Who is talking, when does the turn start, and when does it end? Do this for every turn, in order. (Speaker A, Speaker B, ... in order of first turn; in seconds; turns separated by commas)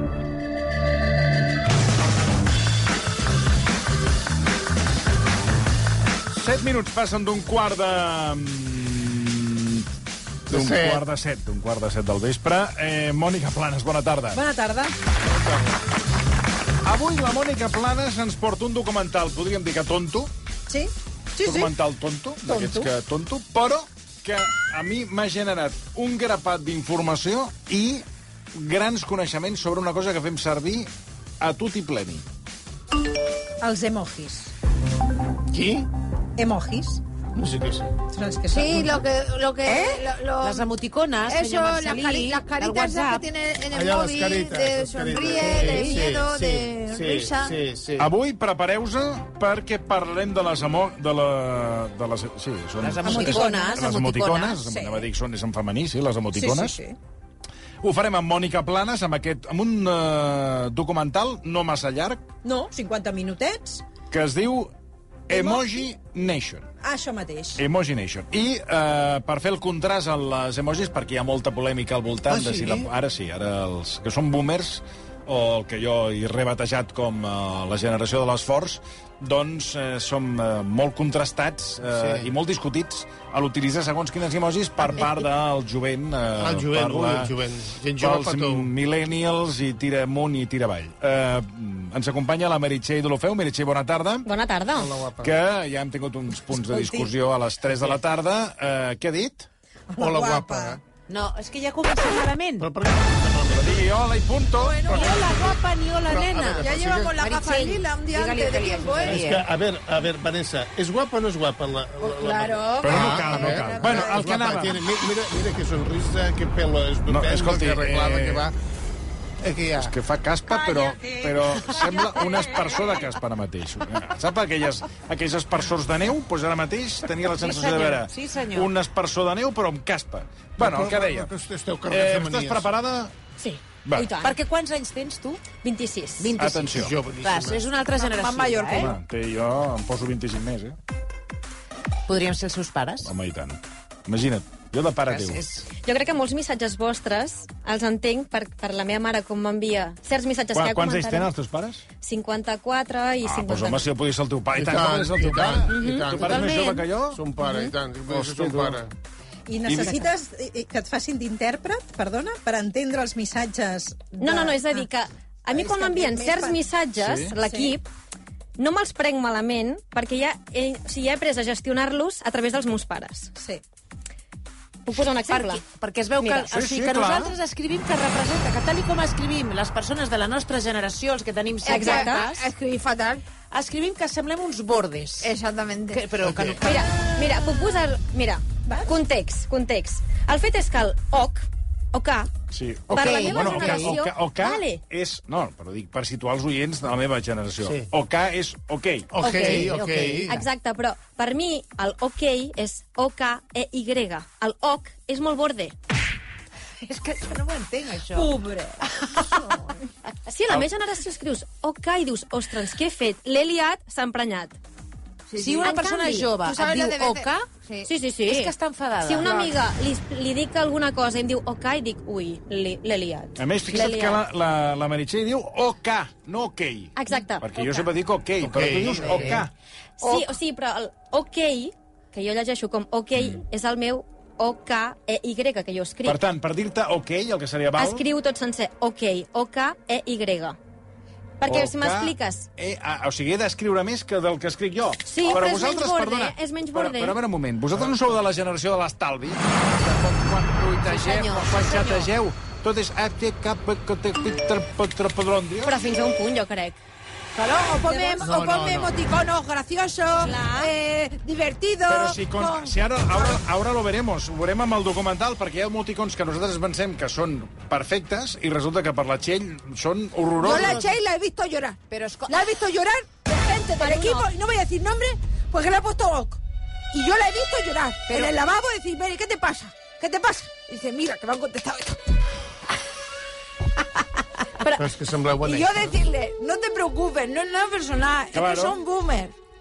Speaker A: 6.3-9.9, Speaker A: 10.5-14.4, Speaker B: 10.5-11.0, Speaker C: 14.3-15.0, Speaker A: 15.3-15.6, Speaker A: 16.8-20.3, Speaker C: 20.7-21.7, Speaker A: 21.4-32.2, Speaker C: 22.4-22.9, Speaker C: 33.6-34.5, Speaker B: 35.5-35.9, Speaker C: 36.4-37.0, Speaker B: 37.4-37.9, Speaker C: 38.1-39.0, Speaker D: 38.5-40.7, Speaker E: 40.4-43.2, Speaker D: 41.3-47.6, Speaker B: 43.7-48.1, Speaker E: 45.5-45.9, Speaker A: 48.0-56.8, Speaker E: 52.8-54.6, Speaker C: 53.0-54.0, Speaker C: 54.6-55.1, Speaker C: 56.3-57.0, Speaker A: 57.8-62.3, Speaker C: 62.4-63.8, Speaker A: 64.1-64.7, Speaker A: 65.3-66.7, Speaker C: 65.3-65.9, Speaker C: 66.8-67.6, Speaker A: 67.5-87.3, Speaker B: 72.3-72.9, Speaker B: 81.9-82.3, Speaker B: 86.4-88.7, Speaker A: 88.0-94.3, Speaker F: 94.2-95.0, Speaker B: 94.7-95.3, Speaker A: 95.2-99.5, Speaker C: 99.9-100.8, Speaker B: 100.0-100.8, Speaker E: 101.1-102.7, Speaker B: 102.6-103.8, Speaker A: 103.5-104.8, Speaker D: 104.6-105.5, Speaker E: 104.9-109.5, Speaker B: 105.0-105.5, Speaker B: 106.1-107.1, Speaker D: 106.5-109.3, Speaker B: 109.0-118.5, Speaker D: 112.0-114.3, Speaker A: 112.8-114.8, Speaker A: 117.1-118.5, Speaker B: 119.4-119.9, Speaker A: 119.8-131.3, Speaker D: 120.8-121.2, Speaker E: 127.4-128.7, Speaker B: 130.6-132.7, Speaker A: 131.9-133.1, Speaker F: 133.4-134.3, Speaker A: 133.8-134.1, Speaker E: 134.2-135.4, Speaker F: 135.6-136.3, Speaker E: 136.2-138.9, Speaker A: 136.3-136.9, Speaker B: 136.7-137.7, Speaker D: 137.9-138.9, Speaker A: 138.7-140.8, Speaker E: 142.1-143.1, Speaker A: 143.0-145.4, Speaker E: 145.1-145.7, Speaker F: 145.8-151.3, Speaker A: 150.5-151.8, Speaker F: 152.0-153.9, Speaker A: 153.2-157.2, Speaker B: 154.5-158.9, Speaker F: 155.7-156.6, Speaker E: 156.2-156.8, Speaker F: 157.4-157.7, Speaker A: 158.1-158.8, Speaker C: 159.5-164.8, Speaker A: 159.7-160.1, Speaker F: 164.2-167.9, Speaker C: 165.5-166.7, Speaker A: 166.9-167.3, Speaker C: 167.4-167.8, Speaker F: 168.6-173.3, Speaker C: 173.4-173.6, Speaker F: 174.8-175.6, Speaker E: 175.3-182.4, Speaker F: 176.2-176.5, Speaker A: 176.5-177.3, Speaker F: 181.6-182.3, Speaker D: 181.6-183.2, Speaker E: 183.5-185.3, Speaker D: 185.2-186.1, Speaker E: 185.9-187.8, Speaker B: 186.2-186.6, Speaker F: 186.6-192.3, Speaker C: 186.6-187.3, Speaker C: 188.7-189.0, Speaker A: 192.5-199.1, Speaker F: 192.9-194.8, Speaker E: 192.9-193.9, Speaker B: 199.1-200.4, Speaker F: 199.2-199.7, Speaker E: 199.2-200.4, Speaker F: 200.3-205.7, Speaker E: 206.8-208.3, Speaker C: 208.2-209.7, Speaker F: 210.2-214.6, Speaker D: 215.3-215.8, Speaker E: 215.4-217.6, Speaker F: 215.6-216.3, Speaker D: 216.3-217.9, Speaker F: 217.8-224.2, Speaker E: 218.2-219.6, Speaker A: 223.4-229.5, Speaker F: 226.9-227.9, Speaker B: 228.4-229.4, Speaker F: 230.0-236.2, Speaker A: 236.0-238.0, Speaker F: 237.8-240.6, Speaker F: 241.4-242.5, Speaker A: 241.4-255.7, Speaker F: 245.1-247.2, Speaker E: 250.8-252.1, Speaker F: 255.6-256.8, Speaker D: 257.3-263.3, Speaker C: 257.8-258.3, Speaker B: 258.2-258.9, Speaker F: 260.2-260.7, Speaker A: 261.9-270.8, Speaker D: 270.4-276.4, Speaker E: 270.4-270.9, Speaker E: 271.9-272.5, Speaker F: 273.8-274.3, Speaker D: 276.9-282.0, Speaker B: 284.7-286.0, Speaker D: 285.4-289.3, Speaker A: 288.3-288.8